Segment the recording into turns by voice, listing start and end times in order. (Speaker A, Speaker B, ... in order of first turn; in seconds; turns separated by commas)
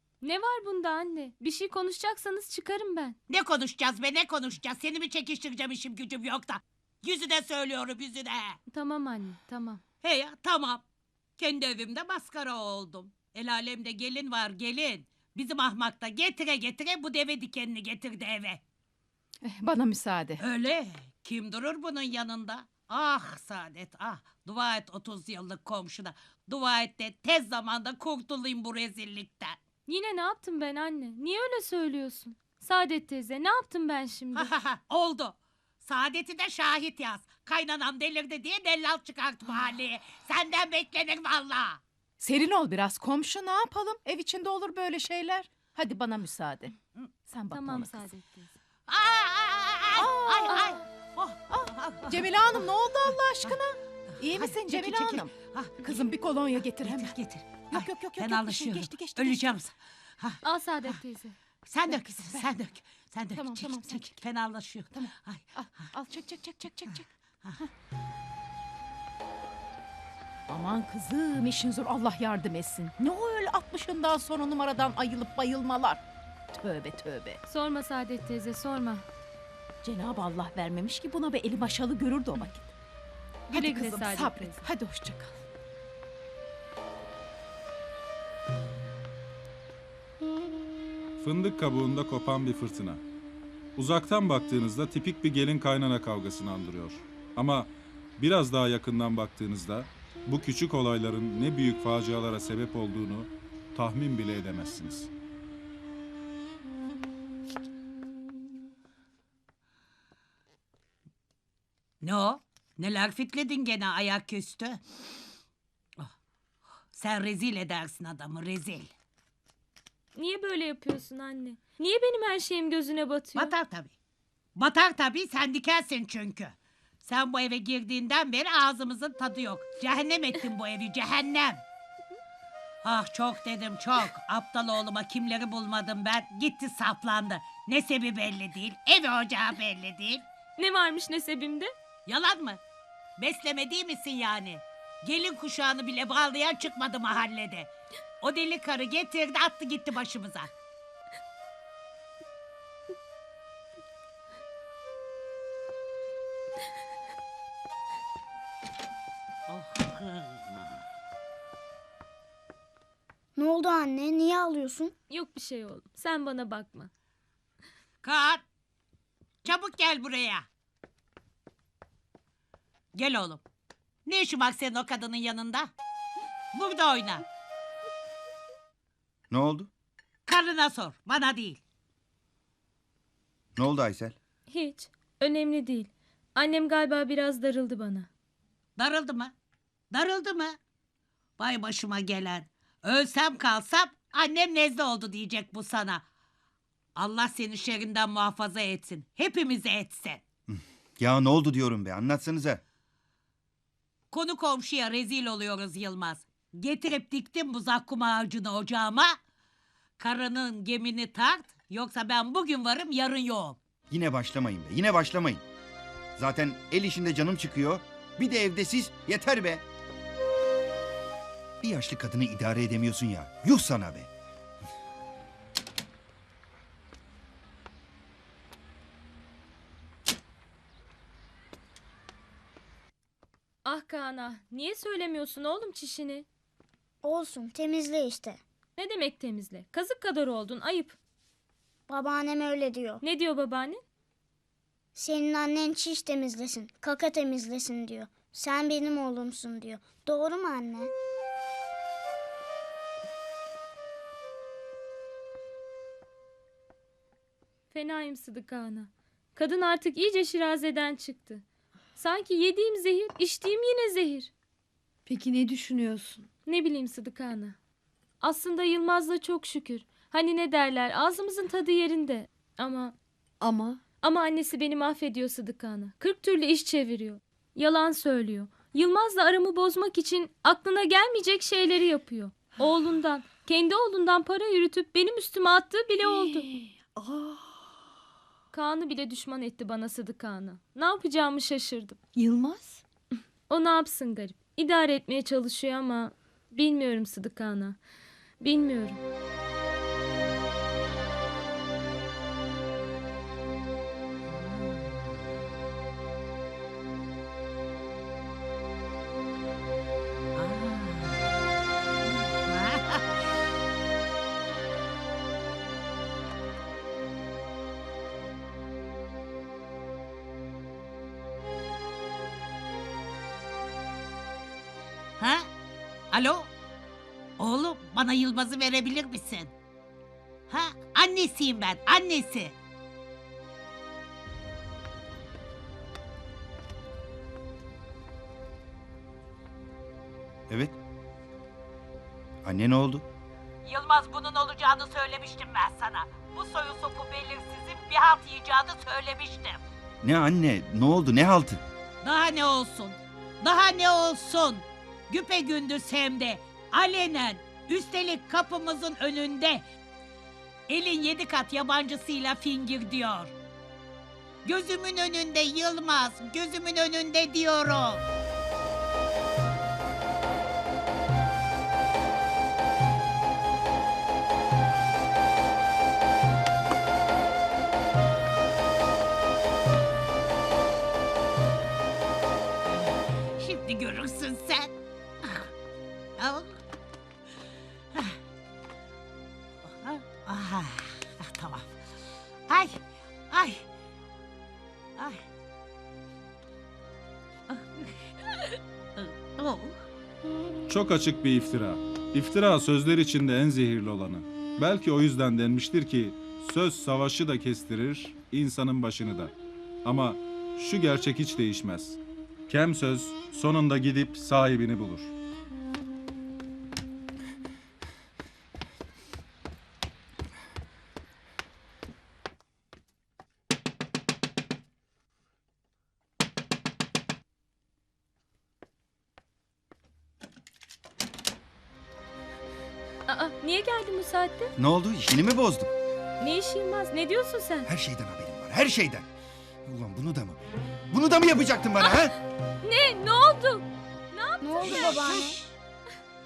Speaker A: 0.2-3.1, Speaker B: 3.3-8.6, Speaker A: 8.7-9.8, Speaker B: 10.0-10.8, Speaker B: 11.4-18.6, Speaker C: 19.4-20.4, Speaker B: 20.4-29.6, Speaker A: 29.9-34.5, Speaker B: 34.3-41.8, Speaker C: 42.2-46.7, Speaker C: 47.2-48.2, Speaker A: 47.5-48.5, Speaker B: 48.9-53.6, Speaker C: 50.0-50.7, Speaker A: 50.5-50.8, Speaker C: 51.5-59.6, Speaker B: 54.2-61.0, Speaker A: 60.4-61.3, Speaker B: 61.6-65.9, Speaker C: 61.9-62.5, Speaker C: 63.3-64.1, Speaker C: 64.9-67.1, Speaker C: 70.5-76.0, Speaker C: 76.5-77.4, Speaker A: 77.5-79.0, Speaker C: 79.8-82.7, Speaker C: 83.5-85.4, Speaker A: 83.5-84.7, Speaker D: 91.2-93.0, Speaker D: 93.8-105.1, Speaker B: 112.0-114.8, Speaker B: 116.9-118.9, Speaker A: 120.2-123.5, Speaker B: 123.3-123.9, Speaker B: 124.5-131.6, Speaker B: 132.8-140.2, Speaker A: 140.6-141.7, Speaker B: 142.1-142.6, Speaker B: 143.2-150.5, Speaker B: 159.5-160.7, Speaker E: 163.3-164.9, Speaker A: 165.1-166.9, Speaker B: 168.0-168.4, Speaker B: 169.4-170.5, Speaker B: 172.9-173.4, Speaker B: 174.1-175.7, Speaker B: 176.5-177.2, Speaker F: 179.3-179.7, Speaker B: 180.2-181.6, Speaker F: 183.6-184.2, Speaker A: 184.5-188.1, Speaker B: 188.8-189.3, Speaker B: 189.9-190.6, Speaker B: 191.4-196.0, Speaker B: 197.0-200.2, Speaker F: 200.5-202.6, Speaker B: 204.1-209.1, Speaker B: 210.0-213.6, Speaker F: 213.9-215.4, Speaker F: 216.2-219.6, Speaker F: 221.6-224.1, Speaker A: 233.6-236.2, Speaker E: 237.0-238.4, Speaker A: 238.8-240.9, Speaker E: 241.9-243.0, Speaker A: 243.0-243.8, Speaker E: 244.9-250.9, Speaker A: 257.7-261.4, Speaker A: 261.9-264.3, Speaker G: 265.1-266.3, Speaker A: 266.4-267.6, Speaker A: 268.2-272.9, Speaker G: 273.4-273.8, Speaker A: 274.0-286.5, Speaker G: 286.0-287.6, Speaker A: 288.5-292.0, Speaker G: 292.1-292.8, Speaker A: 293.5-297.8, Speaker A: 298.4-299.0, Speaker B: 304.3-305.0, Speaker B: 310.4-311.2, Speaker B: 312.1-313.1, Speaker B: 325.2-325.5, Speaker B: 326.1-326.5, Speaker B: 327.4-329.5, Speaker B: 330.5-332.6, Speaker F: 340.5-340.8, Speaker F: 342.4-343.0, Speaker B: 343.6-349.6, Speaker F: 350.0-351.6, Speaker B: 352.0-359.6, Speaker B: 360.7-363.3, Speaker B: 364.4-368.0, Speaker B: 382.7-384.7, Speaker B: 385.2-385.5, Speaker B: 386.2-386.6, Speaker B: 389.7-391.8, Speaker B: 392.5-392.8, Speaker B: 393.3-393.6, Speaker B: 395.0-395.2, Speaker B: 397.5-399.8, Speaker D: 400.7-409.3, Speaker D: 409.8-415.1, Speaker A: 433.1-434.5, Speaker F: 434.6-435.7, Speaker A: 436.2-437.7, Speaker F: 437.6-439.1, Speaker F: 439.6-440.4, Speaker F: 440.9-442.1, Speaker A: 441.8-445.1, Speaker E: 444.4-445.4, Speaker B: 444.6-445.5